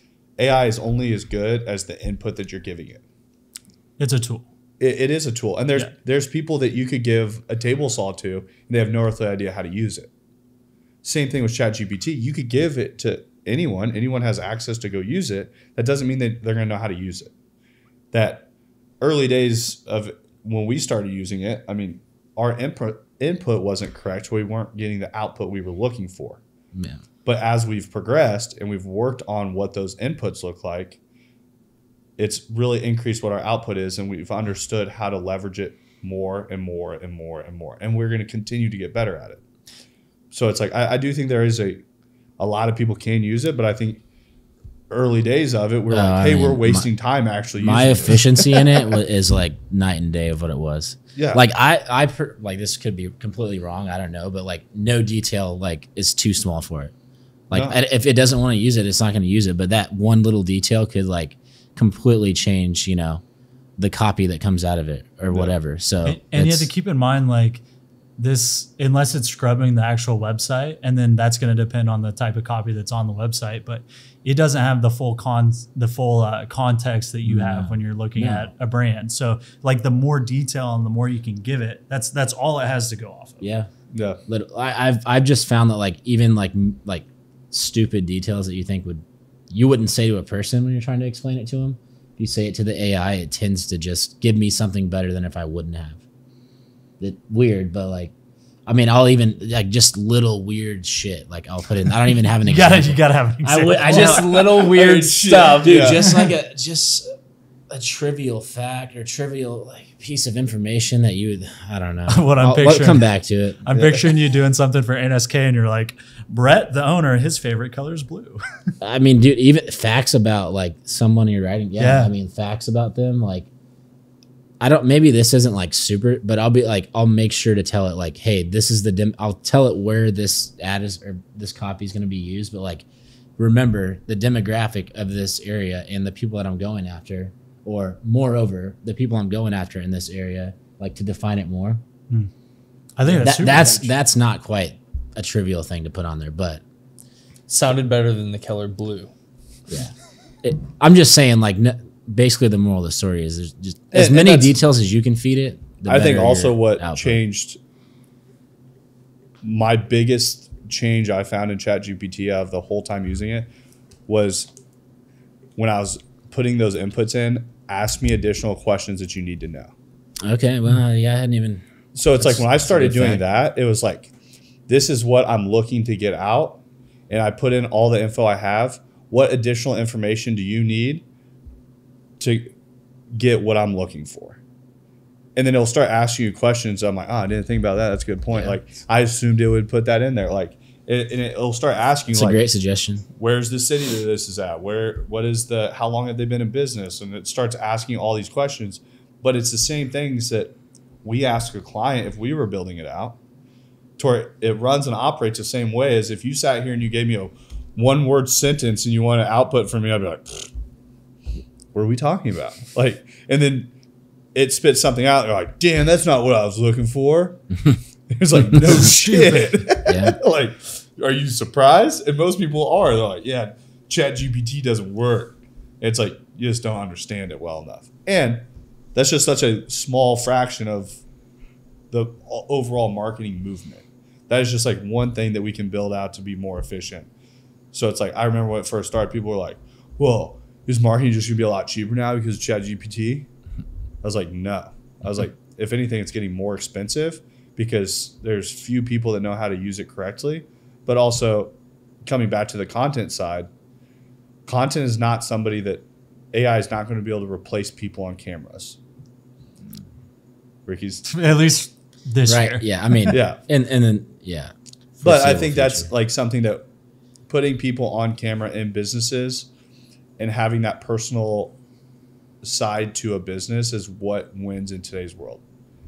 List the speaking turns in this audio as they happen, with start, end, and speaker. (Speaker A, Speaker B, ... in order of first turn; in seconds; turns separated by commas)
Speaker A: 0.4-3.0, Speaker B: 4.0-4.5, Speaker A: 4.8-10.1, Speaker A: 11.0-17.3, Speaker A: 18.1-18.5, Speaker A: 19.0-26.4, Speaker C: 26.7-27.0, Speaker A: 27.2-31.0, Speaker A: 32.2-39.4, Speaker A: 40.3-41.8, Speaker A: 42.4-44.0, Speaker A: 44.9-48.8, Speaker C: 45.9-46.9, Speaker C: 47.6-56.9, Speaker A: 51.2-51.4, Speaker C: 57.5-63.2, Speaker C: 63.8-66.7, Speaker A: 65.3-65.6, Speaker B: 66.0-67.6, Speaker B: 68.2-83.4, Speaker C: 77.2-78.5, Speaker C: 83.4-83.7, Speaker A: 83.9-84.2, Speaker C: 84.3-96.0, Speaker C: 97.0-98.1, Speaker C: 98.7-104.3, Speaker B: 102.5-104.2, Speaker D: 103.8-106.0, Speaker A: 104.5-106.1, Speaker C: 105.6-107.1, Speaker C: 107.7-113.6, Speaker B: 112.1-113.1, Speaker B: 113.7-118.4, Speaker A: 113.7-114.1, Speaker C: 118.8-123.5, Speaker B: 121.8-122.1, Speaker C: 124.6-132.9, Speaker C: 133.4-141.8, Speaker B: 143.0-143.9, Speaker A: 143.1-143.7, Speaker C: 143.2-146.6, Speaker D: 147.5-149.1, Speaker C: 149.7-157.2, Speaker A: 153.9-154.5, Speaker A: 155.9-157.6, Speaker A: 159.4-163.5, Speaker A: 164.1-164.5, Speaker A: 165.6-169.7, Speaker C: 170.2-171.6, Speaker A: 171.9-174.1, Speaker C: 172.2-173.2, Speaker A: 174.7-181.1, Speaker A: 182.2-182.5, Speaker A: 183.1-184.4, Speaker A: 185.4-192.4, Speaker C: 188.3-188.6, Speaker C: 192.1-193.1, Speaker A: 193.2-203.2, Speaker A: 204.0-210.5, Speaker A: 211.7-213.7, Speaker A: 214.3-217.5, Speaker A: 218.1-231.0, Speaker C: 219.8-220.2, Speaker A: 231.9-237.1, Speaker A: 237.7-243.3, Speaker A: 244.0-251.5, Speaker A: 252.1-253.5, Speaker A: 254.5-258.8, Speaker A: 260.7-261.1, Speaker B: 261.1-263.1, Speaker C: 262.2-265.9, Speaker A: 263.1-263.4, Speaker A: 265.0-266.6, Speaker A: 267.3-269.5, Speaker A: 270.2-271.6, Speaker A: 272.4-275.4